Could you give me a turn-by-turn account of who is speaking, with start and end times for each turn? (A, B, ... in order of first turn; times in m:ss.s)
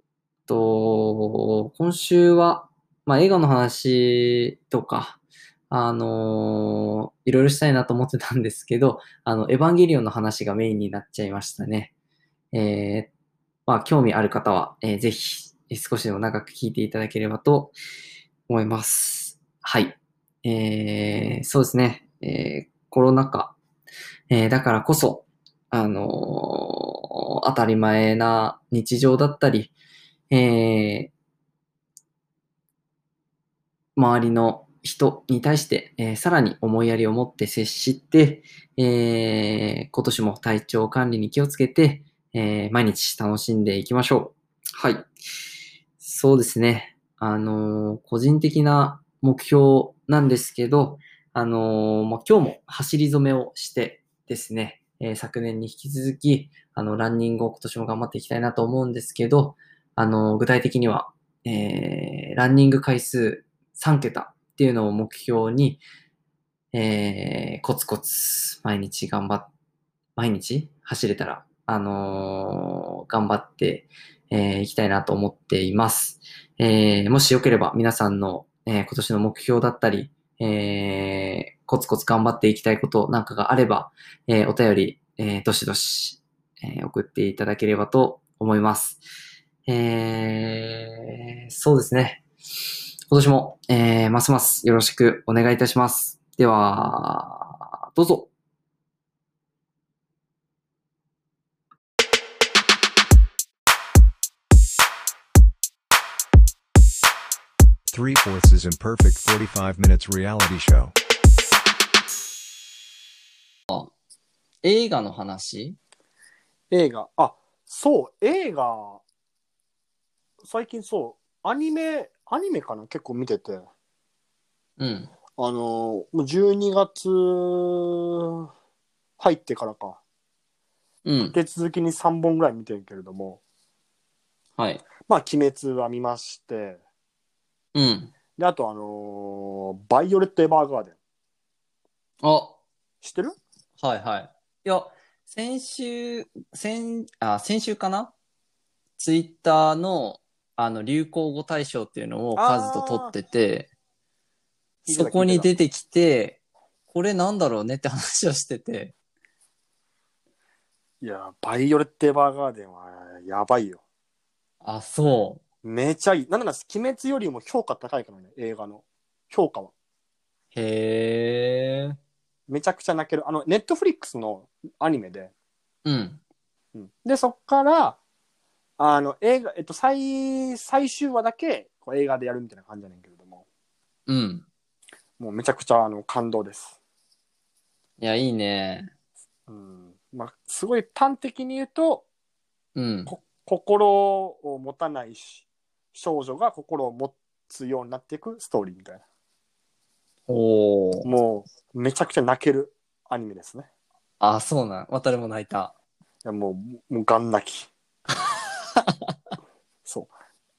0:00.5-0:11.9 A
0:12.5-0:13.1 A
0:13.7-0:17.7 A
0:18.5-0:23.6 A
0:24.3-0:29.7 A
0:30.3-0:31.1 A
0:34.0-0:45.1 A
0:46.0-1:05.8 A
1:06.7-1:09.5 A
1:10.2-1:29.0 A
1:29.7-1:32.2 A
1:33.1-1:38.3 A
1:47.9-1:51.0 B
1:54.6-1:55.8 A
1:56.7-1:59.0 C
2:00.4-2:03.6 C
2:04.8-2:05.1 A
2:05.4-2:08.5 C
2:09.2-2:10.0 C
2:11.0-2:11.4 A
2:11.3-2:13.4 C
2:14.6-2:14.8 A
2:15.1-2:16.8 C
2:17.7-2:18.1 A
2:18.4-2:21.0 C
2:22.2-2:22.6 A
2:23.0-2:23.4 C
2:23.8-2:28.1 A
2:29.0-2:33.7 A
2:32.4-2:33.1 C
2:34.8-2:35.5 C
2:34.9-2:38.9 A
2:41.0-2:43.8 C
2:44.6-2:45.4 A
2:45.6-2:49.7 C
2:50.5-2:52.0 A
2:52.5-2:55.3 C
2:55.8-2:56.2 A
2:56.7-2:58.0 C
2:58.8-3:03.4 C
3:04.1-3:04.5 A
3:05.2-3:06.8 C
3:08.0-3:08.9 A
3:09.5-3:12.0 C
3:12.8-3:13.1 A
3:13.1-3:19.0 C
3:20.3-3:21.1 A
3:21.0-3:23.7 C
3:24.2-3:25.7 A
3:26.2-3:27.7 C
3:28.8-3:29.1 A
3:29.8-3:30.1 C